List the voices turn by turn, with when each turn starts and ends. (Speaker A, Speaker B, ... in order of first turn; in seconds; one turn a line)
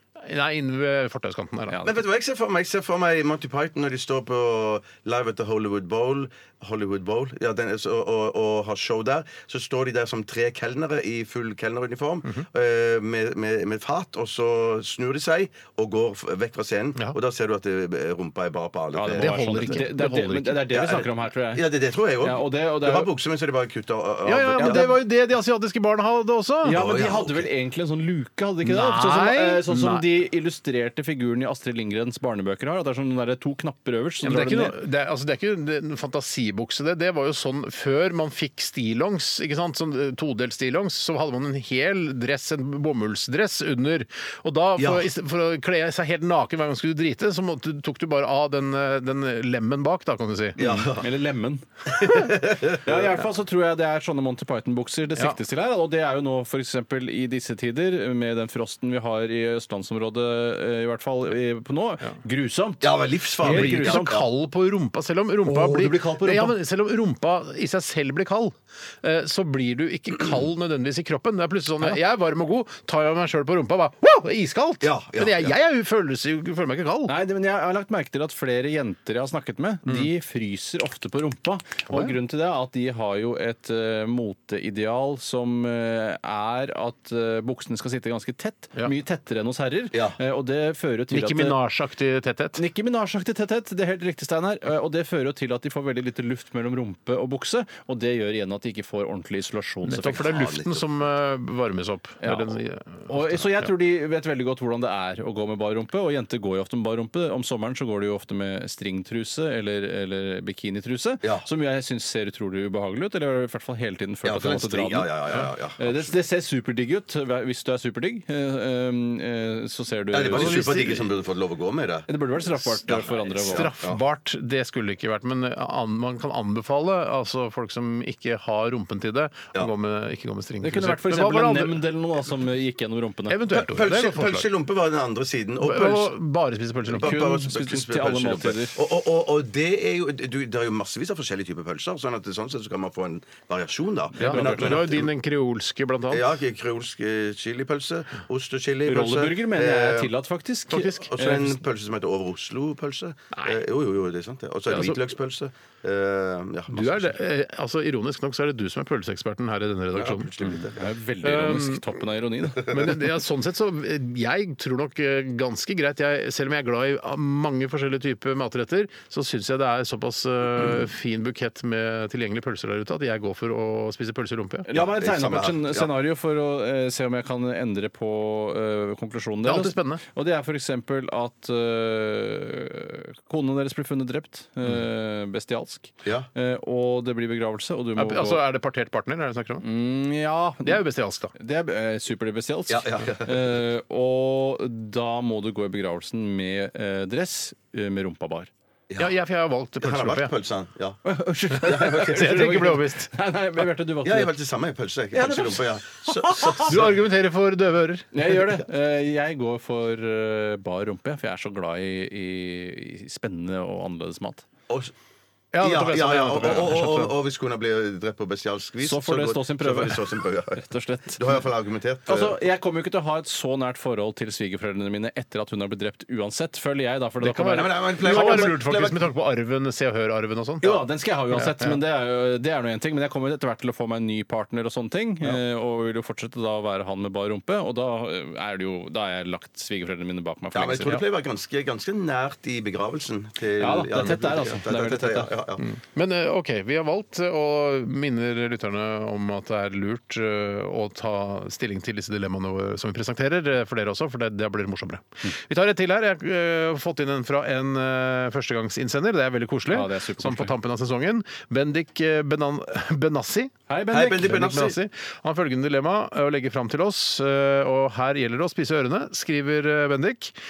Speaker A: 0.2-1.8
Speaker B: 1.7-2.0
Speaker C: 1.8-19.8
Speaker B: 18.9-21.6
Speaker A: 19.1-20.7
Speaker C: 20.7-24.9
Speaker B: 22.2-23.1
Speaker A: 24.2-26.8
Speaker B: 24.6-24.9
Speaker B: 26.6-34.8
Speaker C: 26.7-27.5
Speaker A: 28.6-30.1
Speaker A: 34.2-50.9
Speaker C: 44.8-45.1
Speaker C: 50.6-51.0
Speaker B: 50.6-64.2
Speaker C: 52.0-53.0
Speaker C: 62.8-64.2
Speaker A: 63.4-77.1
Speaker B: 65.5-66.5
Speaker C: 74.8-75.5
Speaker B: 77.1-91.6
Speaker A: 91.1-92.6
Speaker B: 92.5-100.3
Speaker A: 99.8-103.7
Speaker C: 100.2-100.9
Speaker B: 102.2-102.5
Speaker B: 103.1-120.9
Speaker C: 114.2-116.1
Speaker C: 120.1-122.1
Speaker A: 120.3-121.1
Speaker B: 122.1-123.7
Speaker C: 122.8-124.0
Speaker A: 123.5-131.8
Speaker B: 130.6-133.4
Speaker A: 133.3-134.5
Speaker C: 133.5-136.2
Speaker A: 135.6-137.2
Speaker C: 136.9-145.1
Speaker B: 137.0-138.8
Speaker B: 144.2-144.9
Speaker A: 144.2-146.3
Speaker C: 146.1-150.1
Speaker B: 148.8-151.6
Speaker A: 150.7-151.1
Speaker C: 151.0-157.2
Speaker A: 154.7-155.0
Speaker A: 156.7-160.3
Speaker C: 159.9-160.8
Speaker B: 160.5-162.7
Speaker A: 161.2-161.8
Speaker A: 162.6-174.7
Speaker B: 174.7-188.4
Speaker C: 174.7-175.9
Speaker A: 179.4-180.0
Speaker A: 187.9-189.6
Speaker B: 189.6-190.8
Speaker A: 190.6-191.3
Speaker B: 191.3-198.5
Speaker C: 192.7-193.4
Speaker A: 199.0-200.3
Speaker C: 199.8-201.0
Speaker B: 201.0-204.3
Speaker C: 201.6-202.5
Speaker A: 201.9-203.1
Speaker C: 204.0-206.9
Speaker B: 205.1-206.7
Speaker A: 206.6-208.4
Speaker B: 208.1-214.4
Speaker A: 215.5-217.1
Speaker C: 215.6-220.6
Speaker B: 218.8-221.2
Speaker C: 221.1-222.3
Speaker B: 222.1-228.5
Speaker A: 227.2-231.8
Speaker C: 227.5-229.1
Speaker B: 230.6-241.0
Speaker C: 240.5-245.6
Speaker B: 243.6-245.3
Speaker A: 245.6-263.5
Speaker B: 259.7-260.5
Speaker B: 263.7-264.5
Speaker C: 263.9-264.8
Speaker A: 264.2-270.4